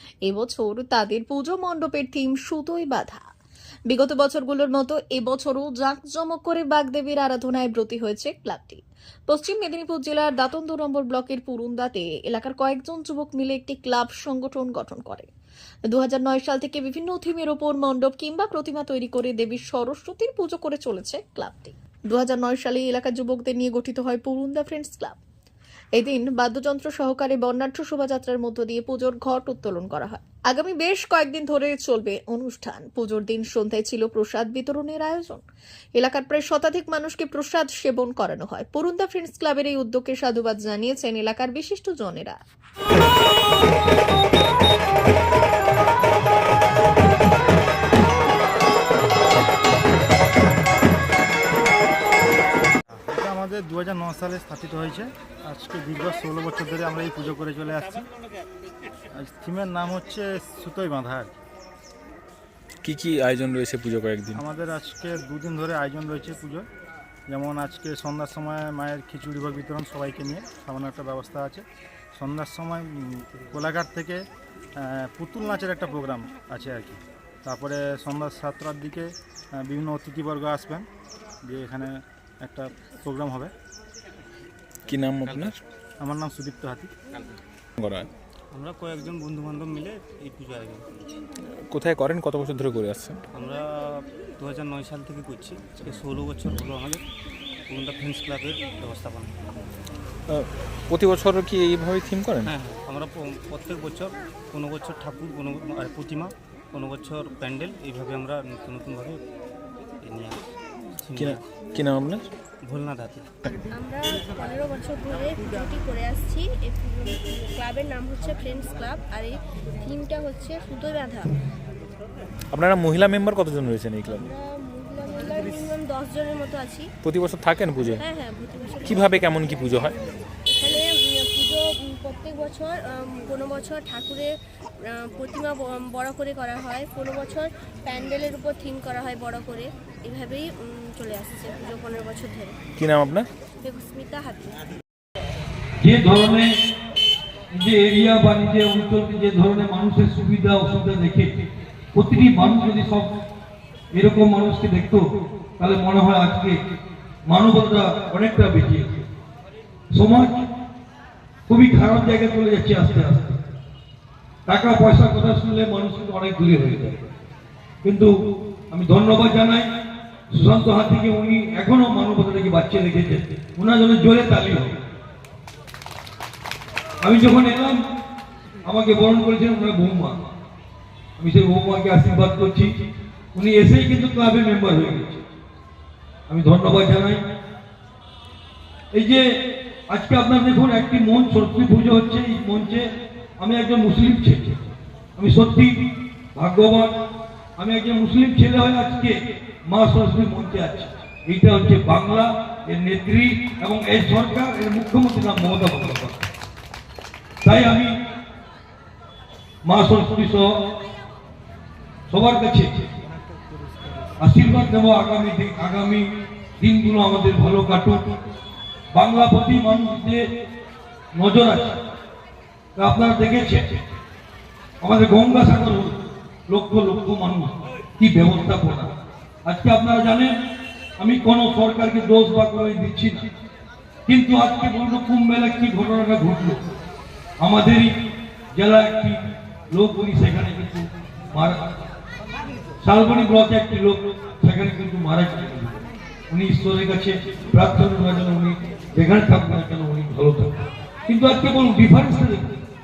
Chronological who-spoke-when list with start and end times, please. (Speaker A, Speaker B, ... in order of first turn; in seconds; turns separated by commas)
Speaker A: 0.3-3.3, Speaker A: 3.9-15.3, Speaker A: 15.9-25.2, Speaker A: 26.0-35.5, Speaker A: 36.0-42.4, Speaker B: 53.1-58.1, Speaker B: 59.1-61.4, Speaker C: 62.8-64.4, Speaker B: 64.3-66.7, Speaker B: 67.3-74.3, Speaker B: 74.8-80.9, Speaker B: 81.5-83.5, Speaker C: 84.9-85.6, Speaker B: 86.0-86.9, Speaker C: 87.8-88.1, Speaker D: 88.5-91.1, Speaker C: 91.5-93.2, Speaker D: 93.3-97.0, Speaker D: 97.7-99.3, Speaker C: 100.3-102.5, Speaker D: 102.4-109.2, Speaker D: 110.0-111.4, Speaker C: 111.1-112.3, Speaker D: 112.6-113.3, Speaker E: 113.6-121.3, Speaker C: 122.5-124.3, Speaker E: 124.2-126.9, Speaker C: 127.0-128.0, Speaker E: 128.0-129.3, Speaker C: 128.8-129.9, Speaker E: 130.5-134.3, Speaker E: 134.9-142.6, Speaker C: 142.8-143.3, Speaker E: 143.6-144.6, Speaker F: 145.8-146.5, Speaker F: 147.5-151.3, Speaker F: 151.9-153.1, Speaker F: 153.9-155.1, Speaker F: 155.6-156.6, Speaker F: 157.3-159.1, Speaker F: 159.9-160.5, Speaker F: 161.5-163.4, Speaker F: 164.5-167.1, Speaker F: 167.8-168.1, Speaker F: 168.7-169.7, Speaker F: 170.3-174.8, Speaker F: 177.0-177.8, Speaker F: 178.7-180.2, Speaker F: 181.2-182.8, Speaker F: 183.3-185.2, Speaker F: 186.3-187.2, Speaker F: 188.9-189.3, Speaker F: 189.9-195.8, Speaker F: 196.3-196.9, Speaker F: 197.6-206.3, Speaker F: 207.4-207.9, Speaker F: 209.7-210.5, Speaker F: 212.1-212.9, Speaker F: 214.2-216.1, Speaker F: 216.6-218.1, Speaker F: 218.9-220.2, Speaker F: 221.1-221.8, Speaker F: 222.8-223.8, Speaker F: 224.8-226.0, Speaker F: 226.5-228.9, Speaker F: 229.5-230.4, Speaker F: 231.0-233.3, Speaker F: 234.1-236.6, Speaker F: 237.4-237.9, Speaker F: 238.5-241.6, Speaker F: 242.8-252.5